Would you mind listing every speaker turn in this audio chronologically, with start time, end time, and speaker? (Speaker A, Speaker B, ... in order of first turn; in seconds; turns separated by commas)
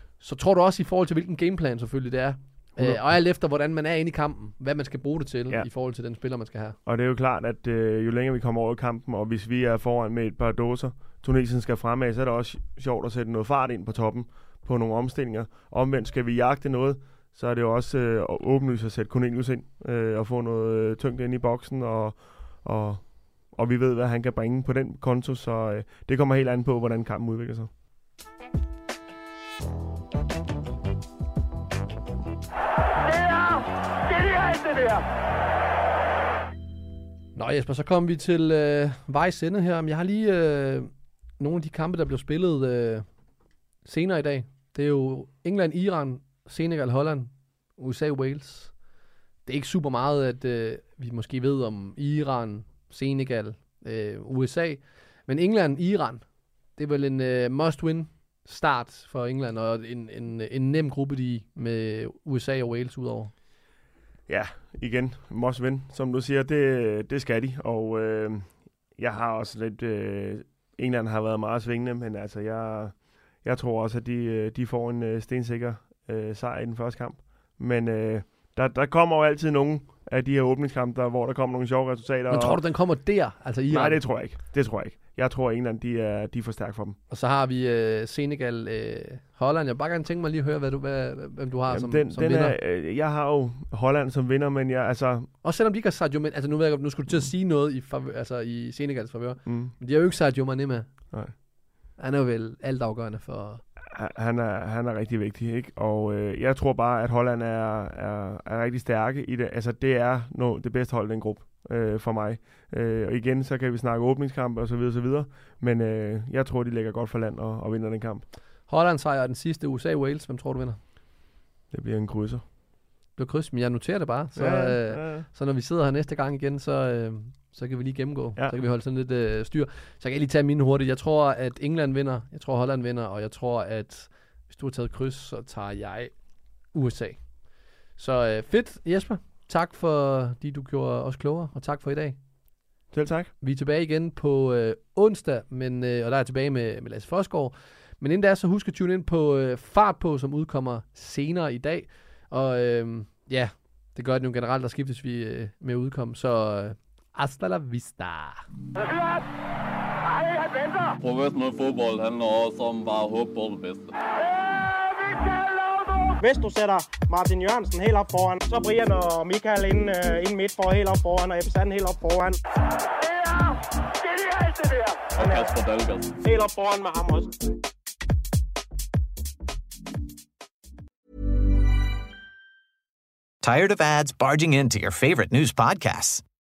Speaker A: 0.2-6.8, Speaker B: 2.8-3.0, Speaker B: 6.9-27.7, Speaker A: 37.4-43.0, Speaker A: 43.9-48.7, Speaker A: 49.5-56.2, Speaker A: 56.8-63.3, Speaker B: 64.3-82.6, Speaker A: 82.3-84.1, Speaker B: 83.7-87.0, Speaker A: 87.1-92.6, Speaker B: 91.7-95.3, Speaker A: 95.4-100.9, Speaker B: 99.5-99.7, Speaker A: 102.0-103.6, Speaker B: 103.9-118.3, Speaker A: 118.7-120.8, Speaker B: 121.7-122.4, Speaker A: 123.2-136.1, Speaker B: 124.3-125.3, Speaker A: 136.7-137.2, Speaker A: 138.0-142.2, Speaker B: 142.9-143.3, Speaker A: 143.4-158.4, Speaker C: 161.0-163.9, Speaker D: 166.2-172.4, Speaker C: 175.2-176.1, Speaker D: 175.2-175.5, Speaker D: 176.2-177.3, Speaker E: 183.4-186.2